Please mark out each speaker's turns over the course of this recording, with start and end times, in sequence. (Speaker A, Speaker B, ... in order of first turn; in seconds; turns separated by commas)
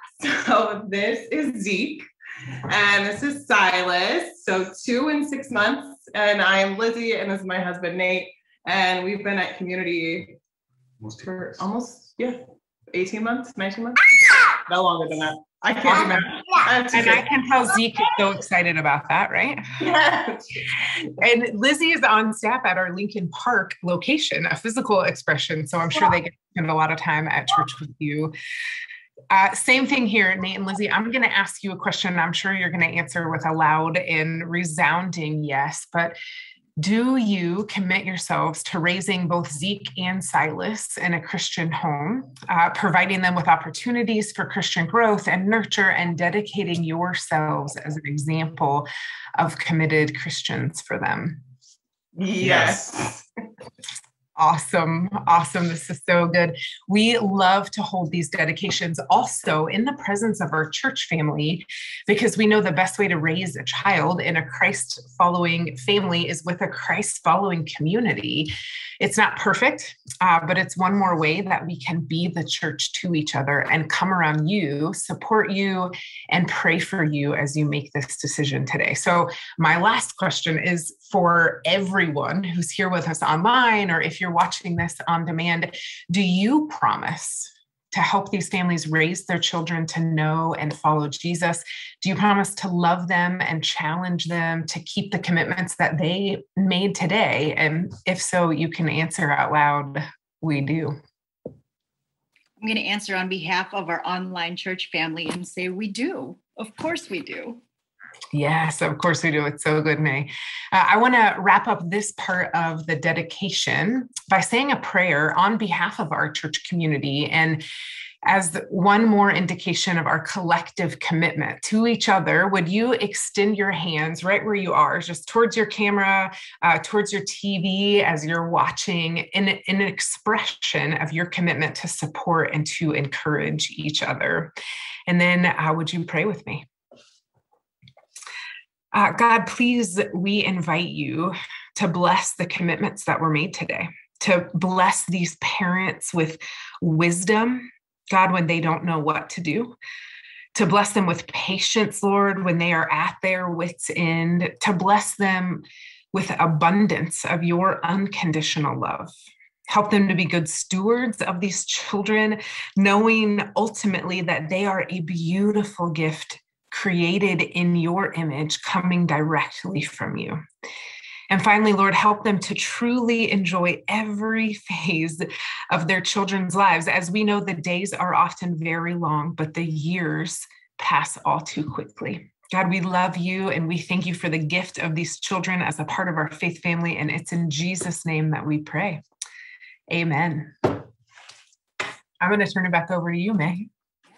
Speaker A: 0.2-2.0, Speaker A: 2.7-10.4, Speaker A: 11.0-14.0, Speaker A: 14.7-17.2, Speaker B: 15.8-16.1, Speaker B: 16.9-19.6, Speaker A: 19.8-20.5, Speaker B: 21.2-28.3, Speaker B: 29.3-36.1, Speaker B: 36.8-48.9, Speaker B: 49.4-51.4, Speaker A: 52.1-53.2, Speaker B: 54.4-101.0, Speaker C: 102.6-107.6, Speaker B: 108.3-117.6, Speaker B: 118.2-134.5, Speaker B: 135.1-136.7, Speaker B: 138.9-149.8, Speaker B: 150.5-159.1, Speaker B: 159.7-170.4, Speaker B: 171.3-189.0, Speaker B: 189.9-190.8, Speaker B: 192.2-193.7